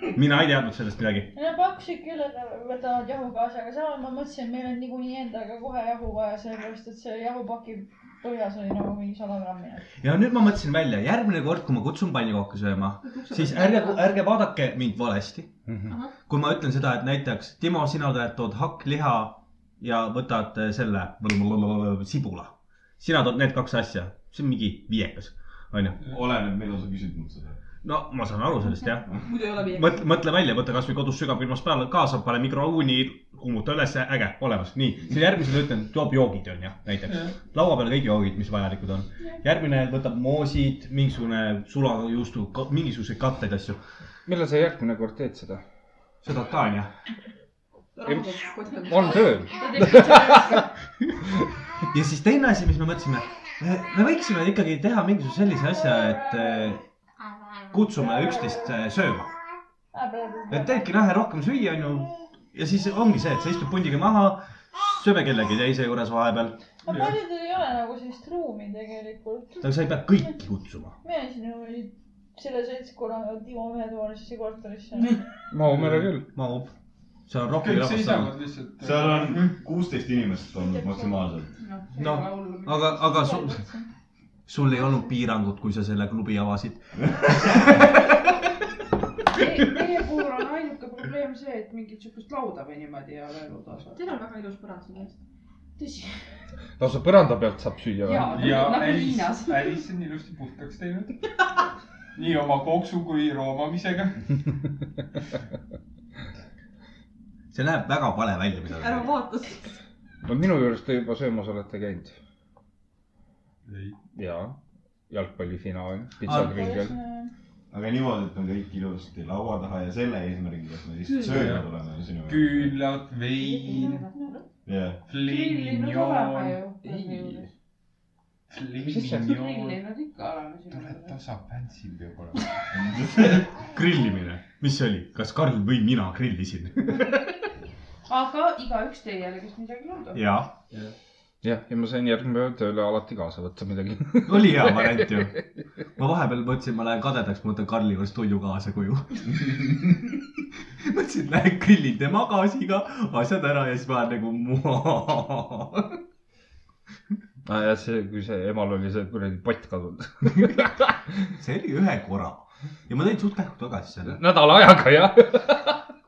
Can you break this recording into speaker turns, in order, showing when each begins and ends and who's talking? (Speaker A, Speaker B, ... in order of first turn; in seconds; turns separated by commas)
Speaker A: 0.1-1.3, Speaker B: 1.4-9.8, Speaker A: 10.0-15.5, Speaker C: 13.0-14.0, Speaker D: 15.7-15.9, Speaker C: 15.9-16.1, Speaker A: 16.3-26.0, Speaker E: 26.0-27.6, Speaker A: 27.8-43.8, Speaker C: 28.7-30.1, Speaker D: 44.3-45.6, Speaker A: 46.2-46.9, Speaker C: 48.0-49.5, Speaker D: 48.1-50.6, Speaker F: 49.5-50.7, Speaker A: 51.9-56.8, Speaker B: 55.9-56.7, Speaker A: 57.7-59.3, Speaker B: 58.1-58.5, Speaker B: 59.9-61.0, Speaker A: 60.5-66.6, Speaker B: 66.8-70.3, Speaker G: 66.9-67.2, Speaker A: 69.6-71.0, Speaker B: 71.0-75.2, Speaker D: 75.5-76.3, Speaker G: 75.7-76.1, Speaker A: 76.3-76.7, Speaker A: 77.3-78.3, Speaker G: 77.5-79.6, Speaker E: 78.8-81.5, Speaker B: 80.6-81.3, Speaker F: 81.6-83.1, Speaker A: 82.0-83.6, Speaker B: 83.1-83.9, Speaker A: 84.5-87.9, Speaker F: 89.3-94.0, Speaker C: 93.9-95.2, Speaker F: 95.8-96.2, Speaker D: 96.8-98.6, Speaker F: 98.0-99.8, Speaker G: 98.3-101.2, Speaker G: 102.2-104.3, Speaker A: 107.5-109.2, Speaker C: 108.7-109.8, Speaker D: 110.2-112.2, Speaker G: 113.7-114.0, Speaker D: 114.2-114.6, Speaker D: 115.1-117.0, Speaker A: 116.2-116.7, Speaker B: 116.2-117.3, Speaker E: 117.7-122.8, Speaker C: 121.1-121.6, Speaker G: 121.2-121.7, Speaker G: 122.3-124.0, Speaker F: 123.7-124.1, Speaker B: 123.7-124.3, Speaker E: 124.7-125.0, Speaker G: 125.1-126.8, Speaker F: 125.1-127.5, Speaker D: 126.8-127.2, Speaker G: 128.5-129.8, Speaker D: 128.9-129.2, Speaker F: 129.0-131.2, Speaker G: 130.7-132.5, Speaker E: 132.7-133.5, Speaker A: 133.6-137.2, Speaker F: 138.1-140.2, Speaker A: 140.1-140.5, Speaker D: 141.4-145.1, Speaker A: 144.3-145.4, Speaker A: 146.0-150.1, Speaker A: 150.8-156.0, Speaker D: 157.4-160.7, Speaker A: 161.4-164.2, Speaker D: 164.1-165.8